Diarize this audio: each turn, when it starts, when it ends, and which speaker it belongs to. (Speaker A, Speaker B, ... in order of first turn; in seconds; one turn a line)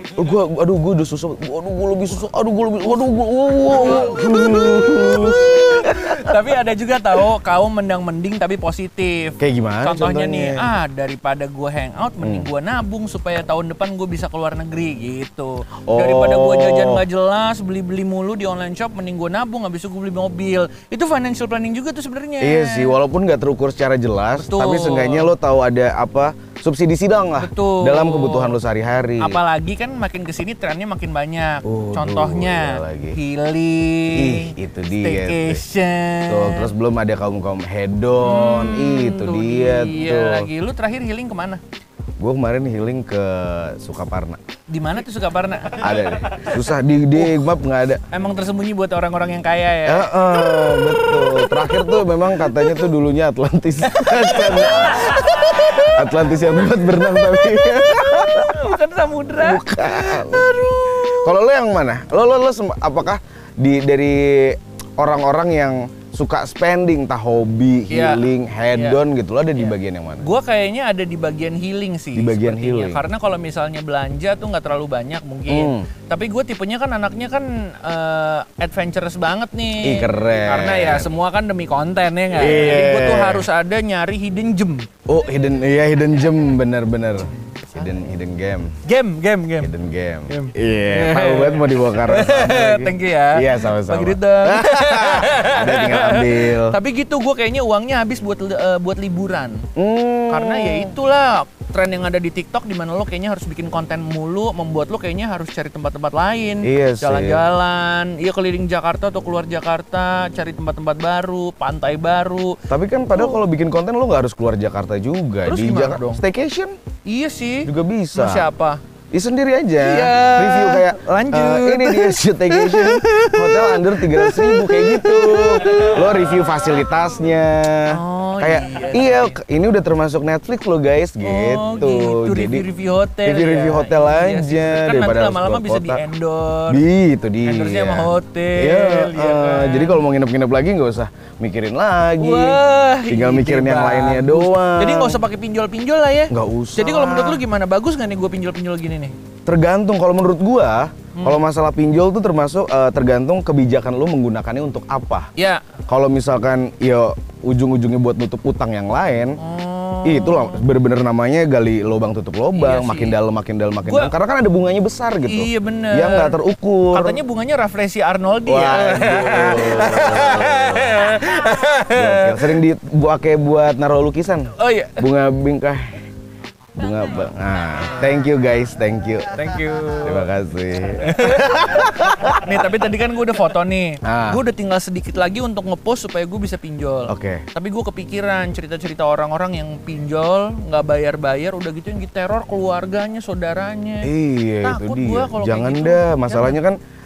Speaker A: 0.2-6.3
Speaker B: 3.7-22.9
Speaker A: 9.4-10.7
Speaker A: 12.2-12.5
Speaker A: 15.9-17.0
Speaker A: 22.4-29.4
Speaker B: 24.4-25.3
Speaker B: 27.4-28.6
Speaker B: 29.2-36.7
Speaker A: 31.6-33.2
Speaker A: 34.1-35.6
Speaker A: 36.3-40.5
Speaker B: 38.2-41.6
Speaker A: 42.2-44.4
Speaker B: 44.7-47.4
Speaker A: 45.8-48.0
Speaker B: 48.1-52.9
Speaker A: 49.9-58.8
Speaker B: 53.8-56.2
Speaker B: 57.0-61.4
Speaker A: 59.4-70.3
Speaker B: 67.9-69.0
Speaker B: 69.5-84.9
Speaker A: 72.2-73.0
Speaker A: 75.5-75.9
Speaker A: 79.8-81.1
Speaker A: 82.3-83.5
Speaker A: 85.1-88.7
Speaker B: 87.4-88.0
Speaker B: 88.8-89.7
Speaker A: 89.6-96.8
Speaker B: 90.3-99.7
Speaker A: 99.8-100.9
Speaker B: 100.3-112.6
Speaker A: 106.6-107.4
Speaker A: 112.7-116.8
Speaker B: 113.1-113.4
Speaker B: 115.4-116.2
Speaker B: 117.0-118.8
Speaker A: 117.7-118.5
Speaker A: 119.1-132.7
Speaker B: 119.8-126.4
Speaker B: 127.9-129.4
Speaker B: 131.2-136.8
Speaker A: 133.2-136.0
Speaker A: 136.7-145.2
Speaker B: 137.4-140.0
Speaker B: 142.2-149.2
Speaker A: 146.3-147.4
Speaker A: 149.5-155.3
Speaker B: 151.2-151.4
Speaker B: 155.4-155.7
Speaker A: 155.9-159.4
Speaker B: 159.4-160.7
Speaker A: 160.0-167.2
Speaker B: 162.5-163.2
Speaker B: 163.8-164.1
Speaker B: 165.3-166.4
Speaker B: 166.9-172.6
Speaker A: 168.5-171.1
Speaker A: 171.9-175.9
Speaker B: 174.6-175.1
Speaker A: 176.8-179.4
Speaker B: 179.3-180.3
Speaker A: 180.0-182.6
Speaker B: 181.0-196.6
Speaker A: 184.0-184.4
Speaker A: 187.1-187.5
Speaker A: 194.0-196.8